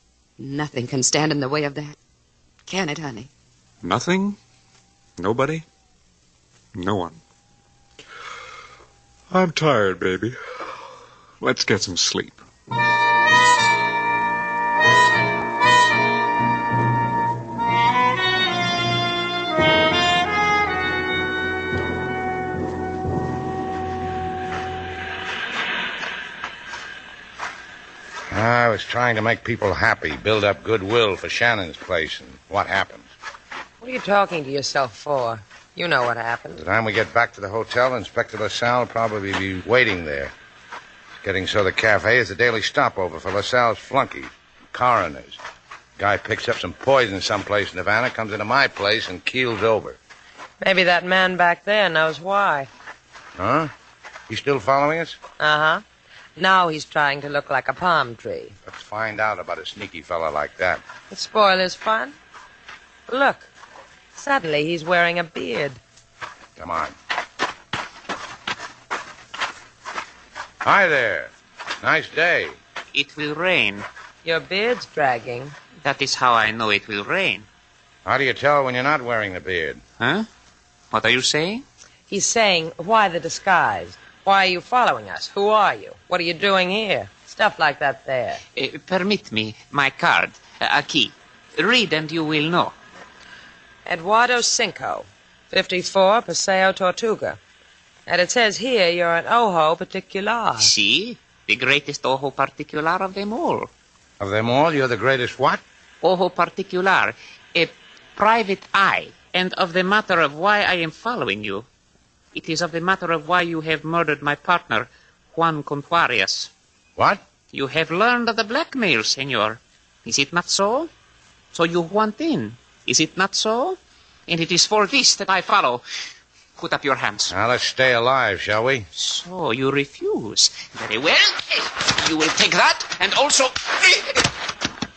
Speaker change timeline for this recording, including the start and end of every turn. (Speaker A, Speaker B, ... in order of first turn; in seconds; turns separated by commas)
Speaker A: 0.4-2.0, Speaker A: 2.7-3.3, Speaker B: 3.8-4.4, Speaker B: 5.2-5.7, Speaker B: 6.7-7.2, Speaker B: 9.3-10.4, Speaker B: 11.4-12.4, Speaker C: 28.3-33.1, Speaker D: 33.8-36.6, Speaker C: 36.5-40.3, Speaker C: 41.2-45.4, Speaker C: 46.0-50.0, Speaker D: 50.6-52.7, Speaker C: 53.4-53.7, Speaker C: 54.3-55.2, Speaker D: 55.4-55.8, Speaker D: 56.4-58.6, Speaker C: 58.7-60.8, Speaker D: 61.1-62.1, Speaker D: 63.1-63.5, Speaker D: 64.2-65.8, Speaker C: 66.6-66.9, Speaker C: 70.6-72.6, Speaker E: 72.9-73.9, Speaker D: 74.2-75.5, Speaker E: 75.8-77.5, Speaker C: 78.0-79.8, Speaker E: 80.0-80.3, Speaker E: 80.9-81.7, Speaker D: 82.1-88.4, Speaker E: 88.5-92.7, Speaker D: 93.9-97.4, Speaker D: 98.1-100.7, Speaker E: 100.6-103.7, Speaker C: 104.2-105.6, Speaker E: 106.0-111.7, Speaker E: 112.3-116.5, Speaker C: 117.0-117.2, Speaker E: 117.5-120.9, Speaker E: 121.5-125.8, Speaker E: 126.6-127.3, Speaker C: 127.3-128.9, Speaker E: 128.9-134.2